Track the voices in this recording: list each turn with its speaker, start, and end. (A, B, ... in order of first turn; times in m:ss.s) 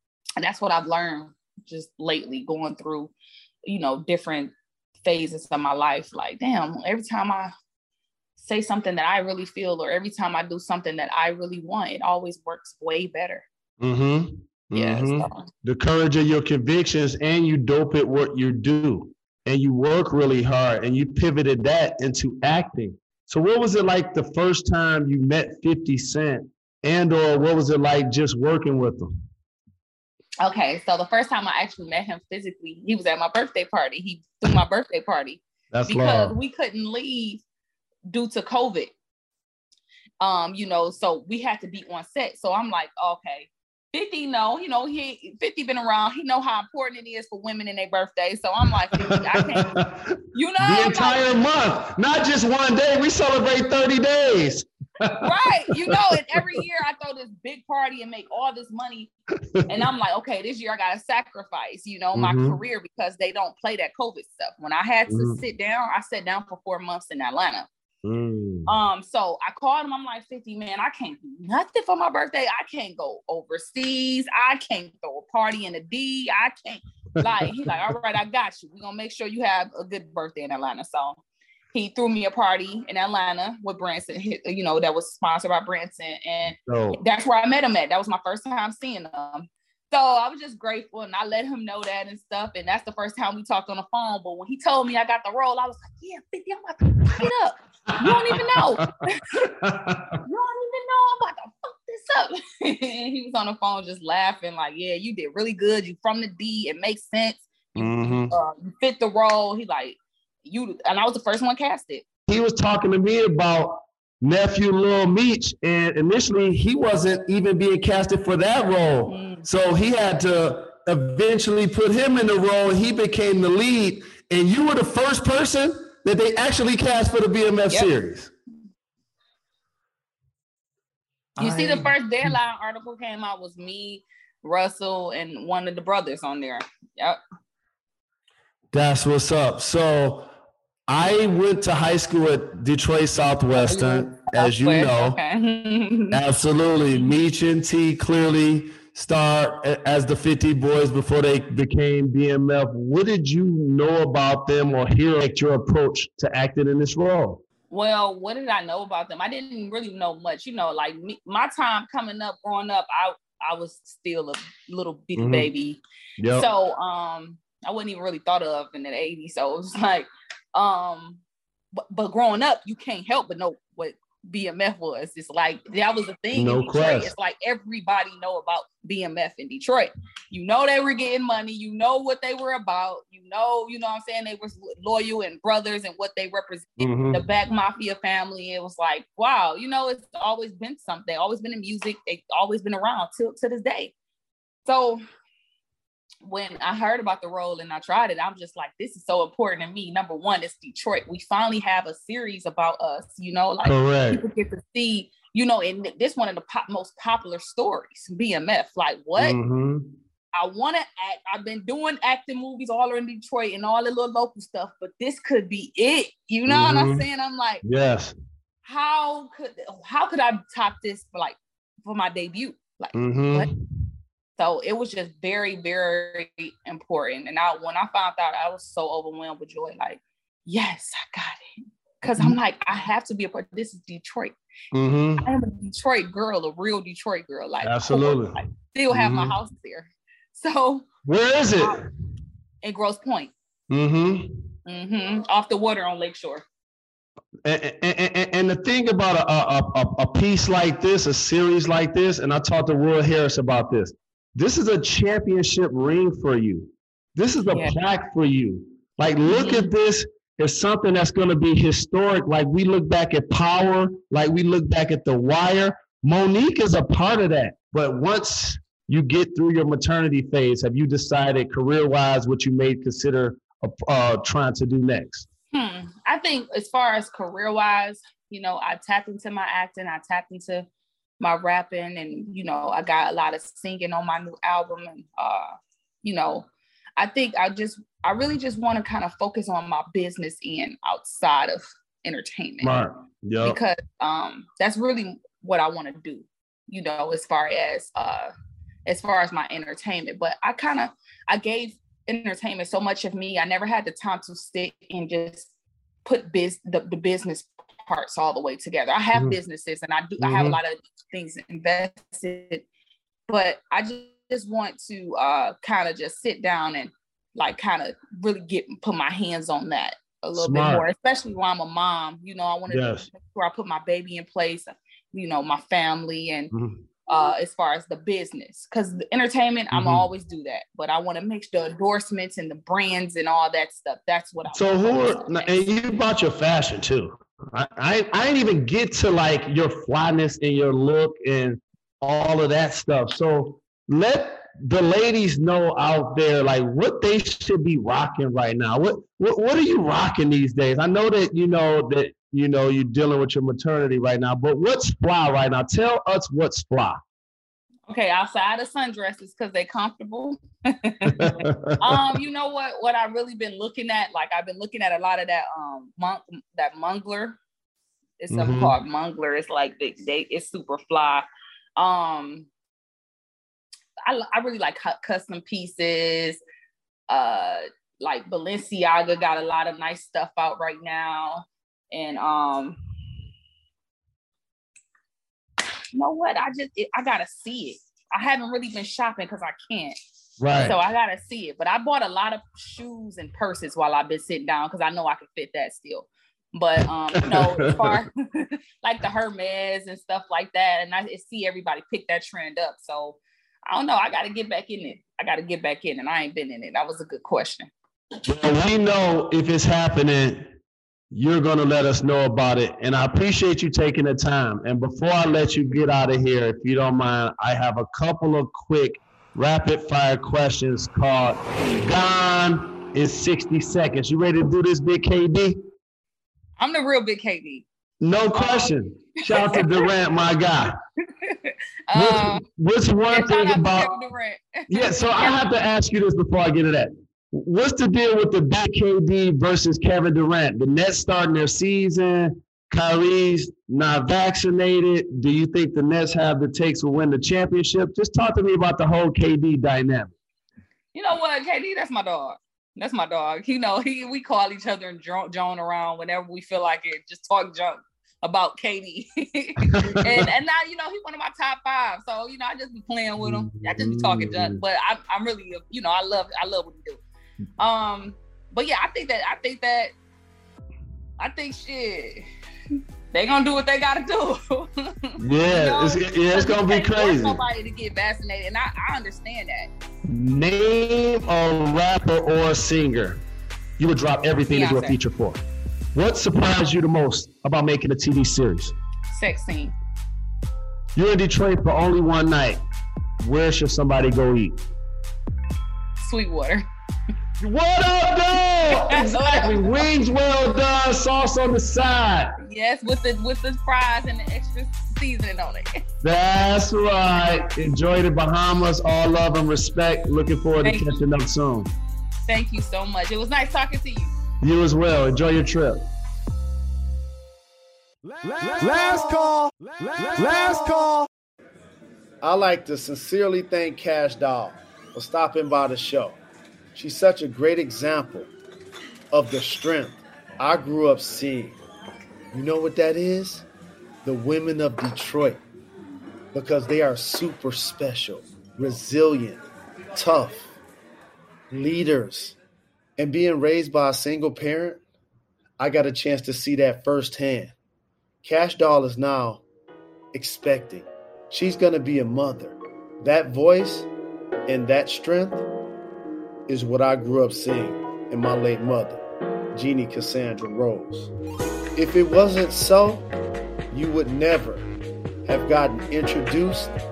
0:00.4-0:03.1 A
0:03.6-0:07.5 A
0:08.4-0:13.5 A
0:13.8-0:29.1 B
0:14.7-0:15.5 A
0:30.4-0:37.4 A
0:35.7-0:36.4 B
0:38.1-0:38.9 A
0:40.2-0:49.7 A
0:49.0-0:56.6 B
0:50.3-0:51.2 A
0:55.2-0:59.1 A
0:59.7-1:07.7 A
1:02.1-1:02.6 B
1:05.1-1:05.4 B
1:08.0-1:08.7 B
1:08.7-1:21.2 A
1:21.7-1:39.5 A
1:26.5-1:27.0 B
1:38.0-1:40.2 B
1:40.2-1:52.0 A
1:47.8-1:48.3 B
1:52.3-2:08.3 B
1:59.1-1:59.4 A
2:11.4-2:17.2 A
2:11.4-2:11.9 B
2:18.7-2:20.3 B
2:20.9-2:25.2 B
2:23.6-2:26.2 A
2:26.1-2:37.4 B
2:37.7-2:51.2 A
2:45.2-2:45.5 B
2:46.2-2:46.5 B
2:51.8-3:13.9 A
2:56.3-2:57.1 B
3:06.8-3:07.2 B
3:14.7-3:15.0 A
3:16.2-3:29.4 A
3:23.6-3:24.2 B
3:29.2-3:29.9 B
3:30.3-3:37.6 A
3:36.5-3:37.0 B
3:37.6-3:38.1 B
3:38.6-3:43.5 A
3:42.9-3:43.5 B
3:44.4-3:51.4 A
3:52.0-3:54.4 A
3:54.7-3:55.3 B
3:55.2-4:00.9 A
3:57.6-3:59.4 B
4:01.0-4:01.8 B
4:02.6-4:03.3 A
4:03.7-4:04.4 B
4:04.7-4:06.4 A
4:07.4-4:35.3 B
4:17.5-4:17.7 A
4:19.2-4:19.7 A
4:35.5-4:40.7 A
4:41.2-4:45.5 A
4:46.0-4:52.8 A
4:52.6-4:53.6 B
4:53.4-4:58.3 A
4:58.9-5:05.5 A
5:06.0-5:12.6 A
5:10.2-5:10.6 B
5:13.3-5:26.5 A
5:20.4-5:20.8 B
5:22.7-5:23.1 B
5:26.5-5:26.8 B
5:27.1-5:35.7 A
5:29.7-5:30.1 B
5:34.5-5:57.0 B
5:57.9-6:07.4 A
6:01.1-6:02.0 B
6:08.2-6:11.2 A
6:08.3-6:08.8 B
6:11.8-6:12.5 A
6:14.0-6:16.4 A
6:17.1-6:22.8 A
6:25.9-6:30.0 A
6:30.4-6:30.8 B
6:30.5-6:47.7 A
6:37.2-6:38.0 B
6:48.2-6:50.5 B
6:51.1-7:05.6 B
7:06.6-7:07.7 A
7:08.0-7:10.8 B
7:08.3-7:09.9 A
7:11.2-7:12.4 A
7:11.9-7:13.9 B
7:13.1-7:15.4 A
7:14.7-7:30.1 B
7:30.9-7:47.0 A
7:39.6-7:40.2 B
7:43.2-7:44.6 B
7:47.6-7:49.9 A
7:51.2-7:52.2 A
7:53.1-7:59.7 A
7:55.2-7:57.4 B
8:00.0-8:03.2 B
8:03.8-8:05.4 B
8:04.5-8:05.0 A
8:05.9-8:08.7 B
8:09.1-8:09.7 A
8:11.0-8:12.6 B
8:13.2-8:14.6 B
8:16.0-8:16.6 A
8:17.4-8:22.3 B
8:18.7-8:19.8 A
8:22.4-8:25.8 A
8:26.0-8:31.7 B
8:30.6-8:30.9 A
8:32.3-8:34.1 A
8:34.4-8:35.8 B
8:38.4-8:39.3 C
8:40.0-8:40.9 C
8:42.2-8:46.2 C
8:46.8-8:48.3 C
8:49.1-8:51.6 C
8:52.3-8:53.5 C
8:54.0-8:55.4 C
8:56.3-8:59.4 C
9:00.0-9:00.5 C
9:01.5-9:02.4 C
9:03.0-9:04.8 C
9:05.6-9:07.5 C
9:08.2-9:09.4 C
9:10.1-9:13.9 C
9:14.5-9:15.4 C
9:16.5-9:19.0 C
9:19.5-9:21.1 C
9:21.8-9:23.1 C
9:23.7-9:24.7 C
9:25.2-9:26.7 C